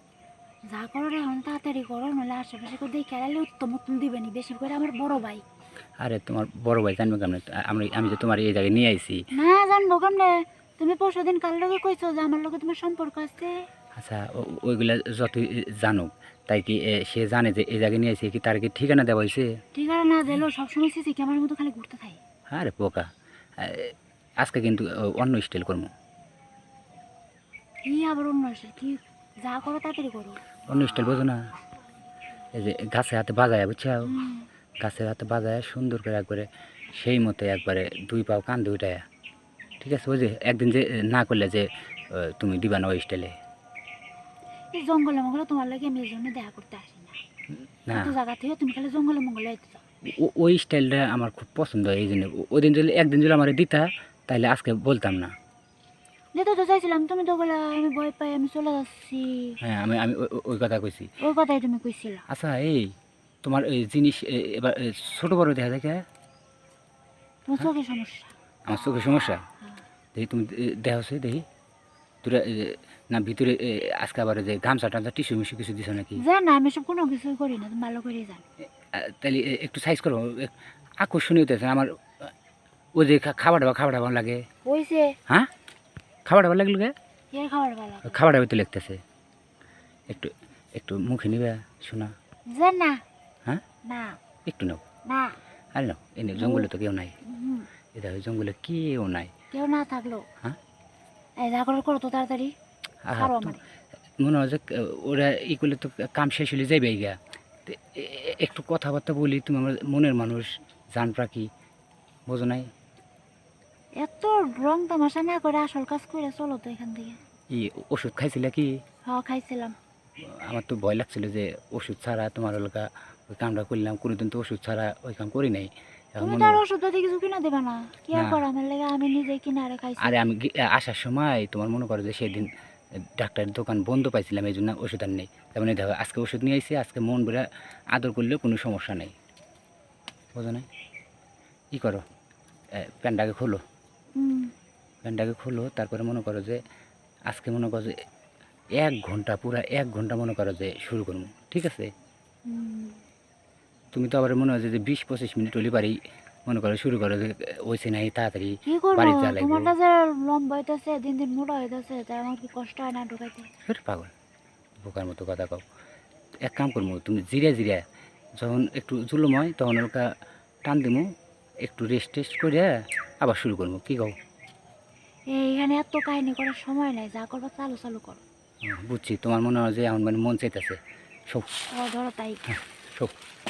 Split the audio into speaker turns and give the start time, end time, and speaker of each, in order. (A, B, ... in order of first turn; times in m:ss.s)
0:00.7-0:05.4 A
0:06.0-0:09.2 B
0:09.3-0:13.6 A
0:14.0-0:19.5 B
0:19.7-0:22.2 A
0:22.5-0:25.9 B
0:27.9-0:30.4 A
0:30.7-0:31.4 B
0:32.5-0:34.2 B
0:34.1-0:34.4 A
0:34.8-0:39.0 B
0:39.8-0:43.4 B
0:44.7-0:47.2 A
0:47.9-0:48.1 B
0:47.9-0:49.8 A
0:50.0-0:55.3 B
0:56.3-0:59.6 A
0:59.6-1:01.1 B
1:01.2-1:02.2 A
1:02.3-1:06.0 B
1:07.4-1:08.3 A
1:08.7-1:09.4 B
1:10.1-1:11.4 B
1:12.2-1:16.2 B
1:16.2-1:18.4 A
1:18.9-1:22.3 B
1:22.9-1:24.4 B
1:24.6-1:25.2 A
1:26.2-1:26.9 B
1:27.3-1:28.2 A
1:28.0-1:29.0 B
1:30.1-1:32.1 B
1:32.5-1:33.0 A
1:33.8-1:34.2 A
1:34.4-1:34.8 B
1:35.0-1:35.4 A
1:35.7-1:37.2 B
1:36.4-1:36.7 A
1:37.2-1:37.7 A
1:37.9-1:39.3 B
1:39.5-1:40.2 A
1:41.4-1:42.5 A
1:43.0-1:43.6 B
1:43.1-1:43.6 A
1:44.2-1:51.5 B
1:52.3-1:52.7 B
1:54.0-1:57.2 A
1:57.5-1:58.7 B
1:59.0-1:59.8 A
2:00.2-2:06.6 B
2:06.2-2:10.2 A
2:10.0-2:12.5 B
2:13.0-2:19.1 B
2:20.3-2:20.7 B
2:21.7-2:22.0 B
2:22.7-2:23.6 B
2:24.2-2:24.5 A
2:25.0-2:26.6 B
2:27.3-2:28.0 B
2:28.8-2:31.9 B
2:32.4-2:33.0 A
2:33.9-2:39.7 B
2:38.7-2:43.5 A
2:43.6-2:44.1 B
2:44.8-2:45.6 B
2:46.4-2:47.8 B
2:48.4-2:50.1 B
2:50.6-2:51.1 B
2:51.6-2:54.2 B
2:55.3-2:58.2 A
2:58.6-3:00.8 B
3:01.7-3:02.4 A
3:02.5-3:03.2 B